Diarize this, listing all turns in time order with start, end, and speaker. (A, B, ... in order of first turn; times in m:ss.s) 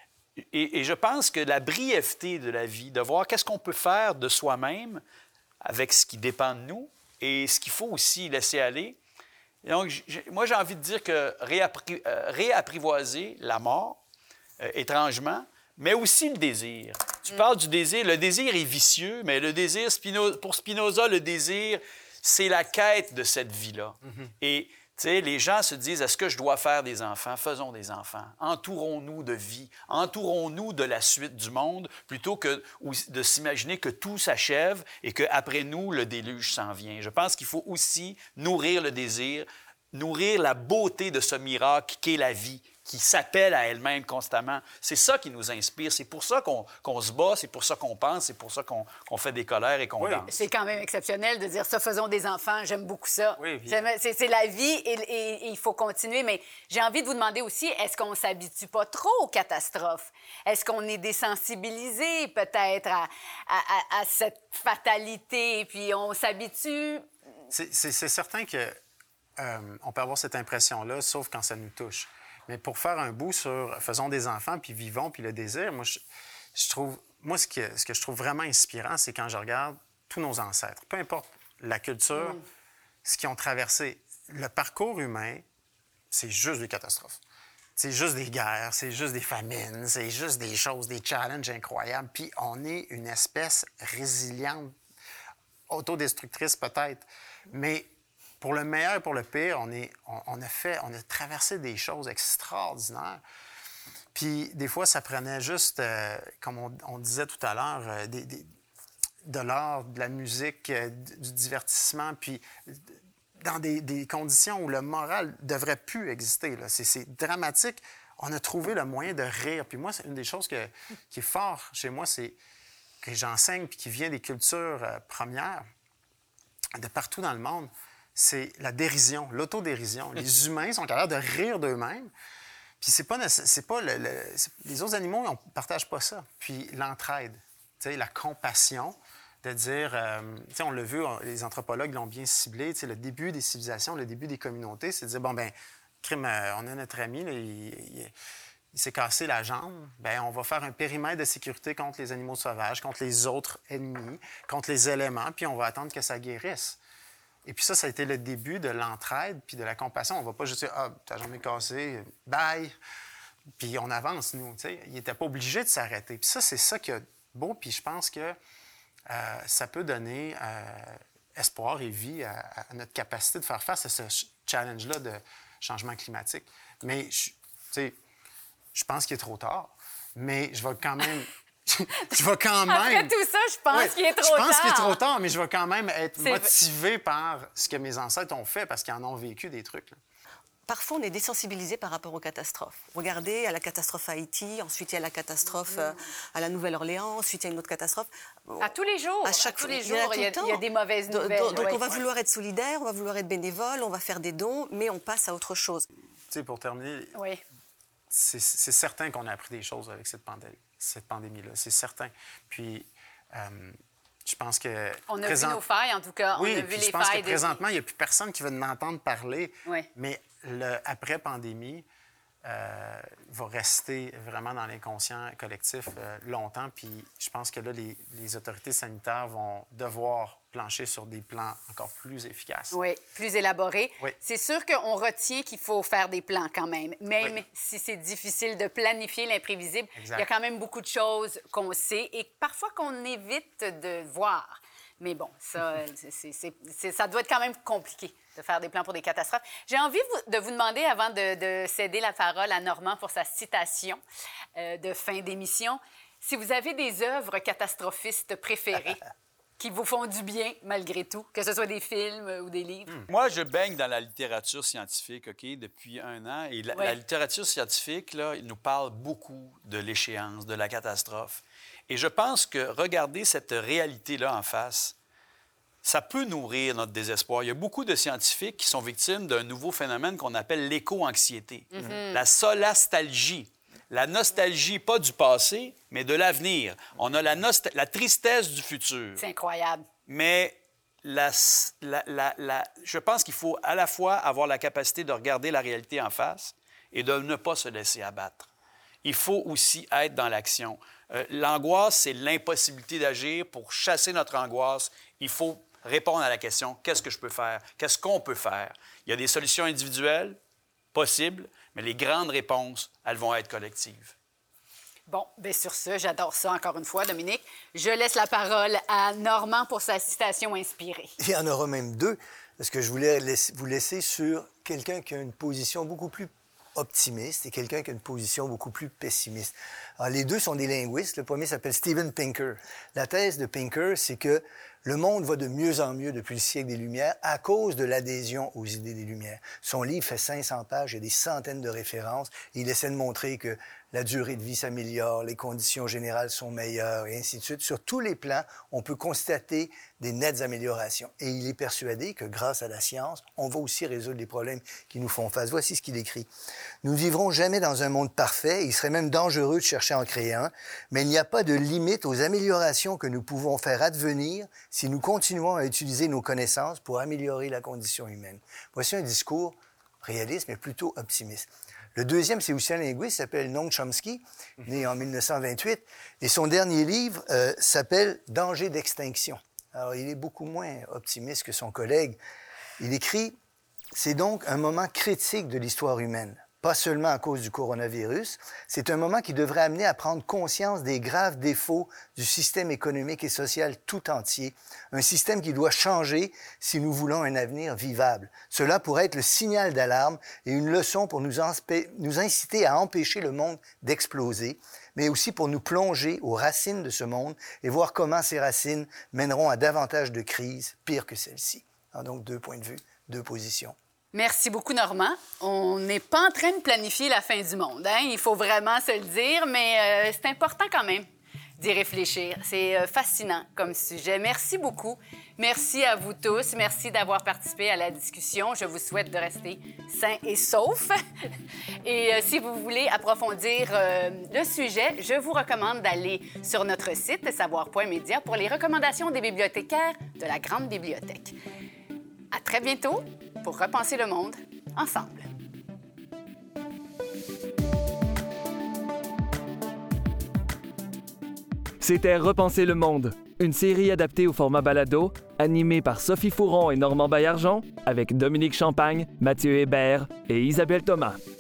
0:00.5-0:05.0 A
0:05.6-0:09.0 A
0:09.6-0:14.0 A
0:14.6-0:50.3 A
0:50.0-0:50.3 B
0:50.3-1:07.1 C
0:53.4-0:53.8 B
1:07.5-1:08.8 B
1:09.4-1:16.0 B
1:16.6-1:22.4 B
1:22.2-1:22.4 C
1:23.0-1:25.4 B
1:26.1-1:27.2 B
1:27.8-1:34.8 B
1:35.7-1:37.9 B
1:38.4-1:43.2 B
1:44.1-1:48.5 B
1:49.2-2:02.4 B
2:03.0-2:05.6 B
2:06.8-2:12.1 B
2:12.8-2:28.1 B
2:28.7-2:36.8 B
2:37.4-2:42.8 B
2:43.6-2:48.4 B
2:49.1-2:58.0 B
2:58.7-3:03.1 B
3:02.7-3:05.0 C
3:03.7-3:10.0 B
3:06.2-3:06.5 C
3:10.7-3:18.7 D
3:18.6-3:21.8 C
3:19.2-3:25.9 D
3:26.3-3:27.2 B
3:27.2-3:27.4 C
3:28.1-3:35.6 B
3:35.1-3:37.6 C
3:36.3-3:41.9 B
3:42.4-3:52.8 B
3:52.7-4:14.0 C
4:00.0-4:00.3 B
4:14.6-4:19.0 C
4:19.6-4:23.0 C
4:23.1-4:35.0 A
4:35.8-4:49.2 A
4:41.7-4:42.2 C
4:49.2-4:49.8 C
4:50.1-4:58.5 A
4:59.0-5:10.4 A
5:10.9-5:14.1 A
5:15.1-5:21.1 C
5:21.2-5:56.3 E
5:56.8-6:22.2 E
6:22.8-6:23.4 E
6:23.9-6:53.8 E
6:54.1-7:01.1 C
7:01.6-7:11.3 C
7:11.8-7:21.4 C
7:22.3-7:25.3 C
7:31.8-7:41.2 F